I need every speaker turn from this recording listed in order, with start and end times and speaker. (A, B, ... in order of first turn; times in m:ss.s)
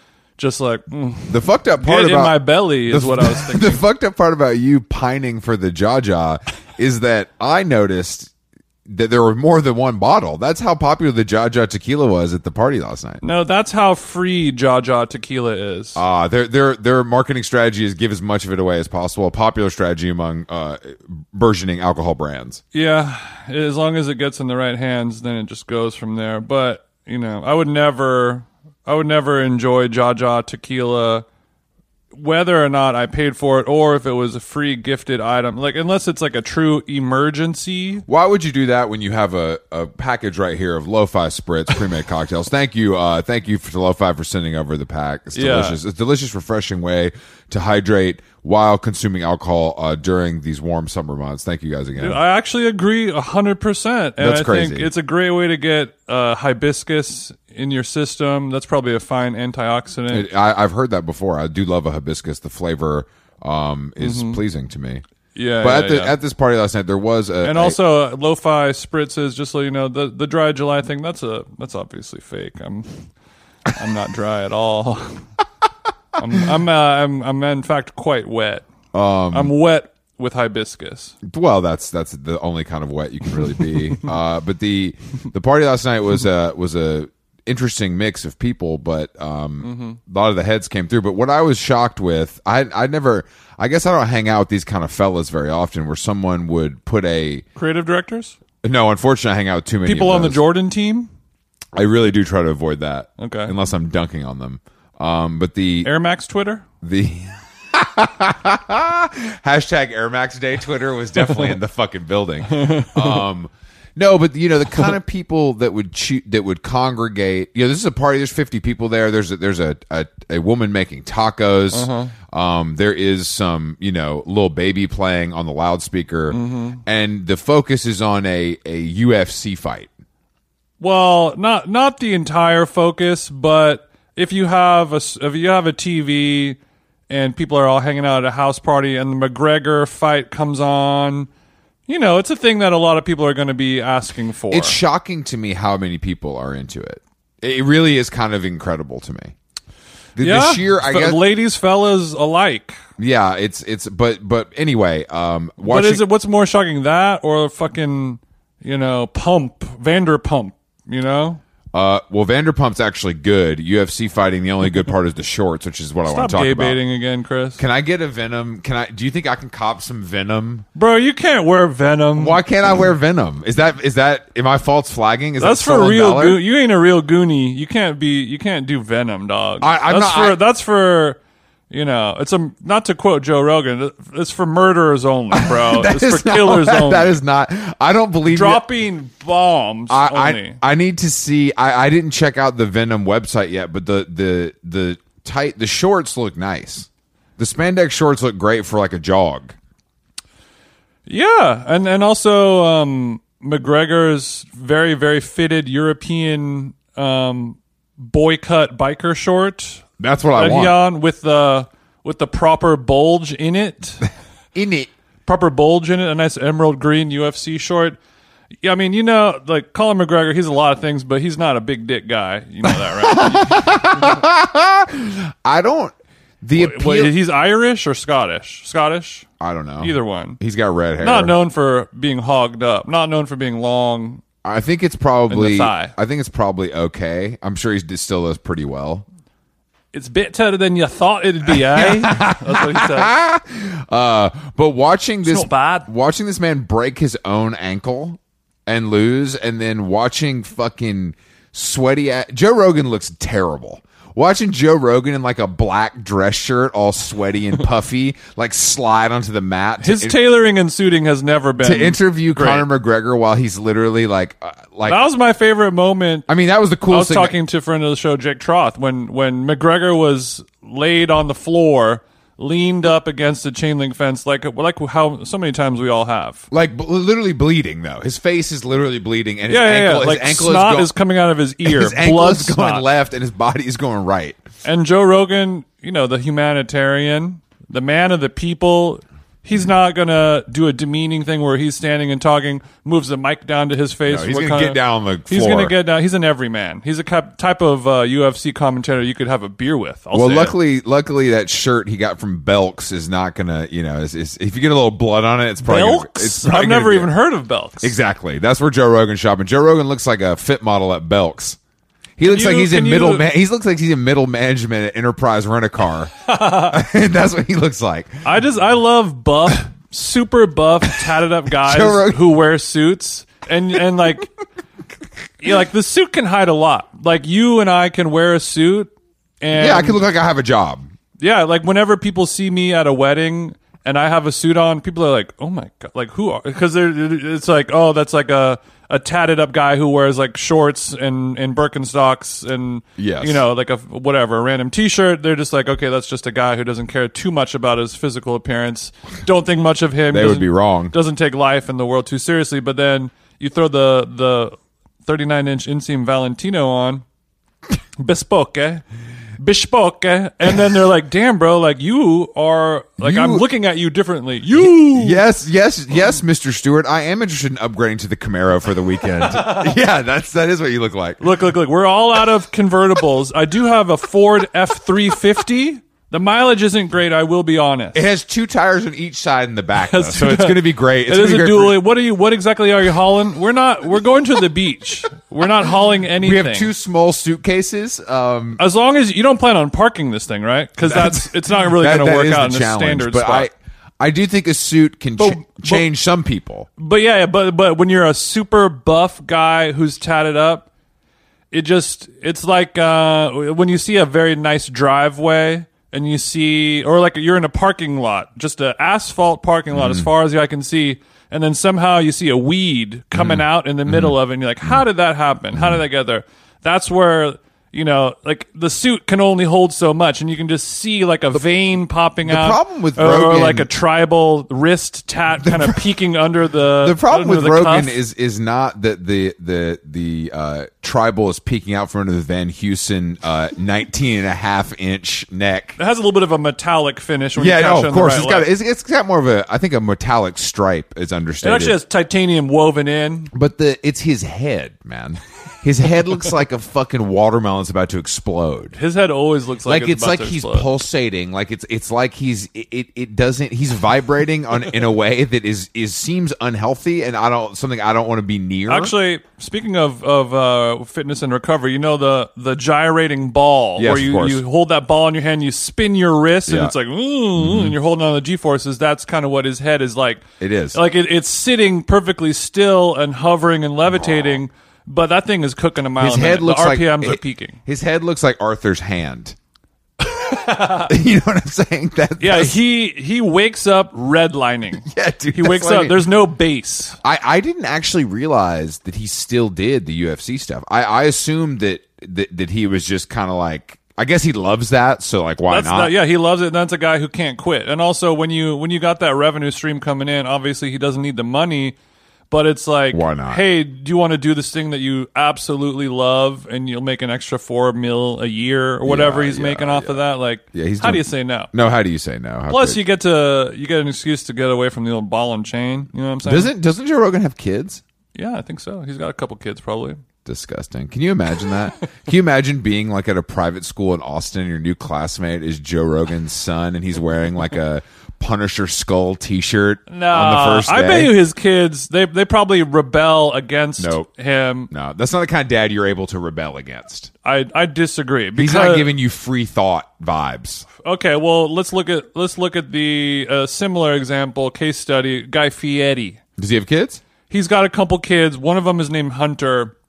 0:00.4-0:03.8 A
0:01.3-0:08.3 B
0:08.9-0:13.2 B
0:13.2-0:16.0 A
0:16.0-0:22.6 B
0:22.7-0:31.2 A
0:32.1-0:38.1 A
0:38.1-0:52.2 B
0:45.4-0:45.8 A
0:52.0-1:00.3 A
0:54.2-0:54.9 B
1:00.1-1:05.0 B
1:04.0-1:04.4 A
1:05.3-1:06.2 A
1:05.6-1:07.8 B
1:07.4-1:13.1 A
1:13.7-1:15.3 A
1:16.2-1:18.7 A
1:18.9-1:19.5 B
1:19.3-1:21.2 A
1:21.2-1:37.4 B
1:29.6-1:30.0 A
1:37.6-1:38.4 A
1:38.6-1:40.4 B
1:39.8-1:41.1 A
1:41.8-1:45.9 B
1:43.2-1:43.5 A
1:45.8-1:46.6 A
1:46.8-2:09.9 B
1:51.3-1:51.5 A
1:52.5-1:53.3 A
2:01.7-2:02.1 A
2:06.3-2:06.8 A
2:10.8-2:16.6 A
2:17.1-2:21.3 A
2:21.9-2:24.8 A
2:24.5-2:29.3 B
2:30.2-2:31.2 B
2:30.2-2:32.8 A
2:33.0-2:36.0 B
2:35.6-2:41.4 A
2:41.7-2:46.8 B
2:46.1-2:47.6 A
2:47.6-2:50.6 B
2:50.8-2:52.4 A
2:52.2-2:56.4 B
2:55.4-3:01.2 A
2:59.6-3:00.4 B
3:01.7-3:07.2 A
3:05.3-3:08.6 B
3:08.3-3:10.6 A
3:09.9-3:19.6 B
3:21.1-3:34.1 A
3:30.0-3:30.8 B
3:34.5-3:34.9 B
3:35.2-3:38.0 A
3:38.6-3:44.2 A
3:42.6-3:47.1 B
3:46.6-3:49.3 A
3:49.4-3:51.4 B
3:49.8-3:50.4 A
3:51.0-3:54.2 A
3:54.4-3:59.0 B
3:55.3-3:56.0 A
3:59.9-4:03.1 A
4:01.5-4:20.2 B
4:05.2-4:05.9 A
4:19.8-4:22.7 A
4:21.6-4:25.0 B
4:24.9-4:26.3 A
4:26.3-4:27.4 B
4:26.9-4:36.5 A
4:36.5-4:40.9 B
4:39.5-4:42.9 A
4:41.6-4:44.4 B
4:44.6-5:00.6 A
4:54.1-4:55.8 B
5:00.1-5:07.1 B
5:05.6-5:07.9 A
5:07.8-5:11.6 B
5:12.2-5:18.2 B
5:12.2-5:13.3 A
5:16.2-5:16.8 A
5:18.2-5:24.3 A
5:21.6-5:22.2 B
5:25.4-5:30.0 A
5:29.5-5:30.9 B
5:31.2-5:57.0 A
5:43.0-5:43.4 B
5:50.1-5:50.9 B
5:58.0-5:58.8 A
5:59.4-6:05.2 A
6:03.0-6:03.4 B
6:04.6-6:11.2 B
6:09.4-6:09.7 A
6:11.2-6:18.0 A
6:17.9-6:21.8 B
6:19.8-6:26.7 A
6:26.2-6:28.6 B
6:28.6-6:33.5 A
6:30.8-6:36.7 B
6:35.2-6:35.9 A
6:36.8-6:40.7 A
6:41.5-7:08.0 A
6:49.7-6:50.1 B
6:53.1-6:54.2 B
7:02.2-7:03.7 B
7:05.4-7:05.8 B
7:06.8-7:15.8 B
7:15.8-7:18.5 A
7:17.4-7:21.8 B
7:21.4-7:23.3 A
7:23.3-7:28.8 B
7:28.8-7:30.7 A
7:29.6-7:38.9 B
7:38.7-7:57.6 A
7:43.8-7:44.4 B
7:46.5-7:46.7 B
7:47.4-7:47.8 B
7:50.4-7:50.8 B
7:53.9-7:54.4 B
7:56.0-7:59.4 B
8:00.0-8:00.9 A
8:00.9-8:02.6 B
8:02.2-8:07.0 A
8:04.8-8:06.0 B
8:07.0-8:15.9 B
8:15.5-8:21.8 A
8:22.3-8:31.5 A
8:22.9-8:23.4 B
8:28.8-8:32.8 B
8:32.5-8:36.5 A
8:36.2-8:37.8 B
8:38.2-8:40.0 A
8:40.2-8:51.2 B
8:49.9-8:54.7 A
8:53.8-8:54.1 B
8:54.7-8:57.1 B
8:57.2-8:58.9 A
8:58.4-9:00.7 B
9:00.8-9:06.2 A
9:06.4-9:07.0 B
9:07.3-9:09.7 A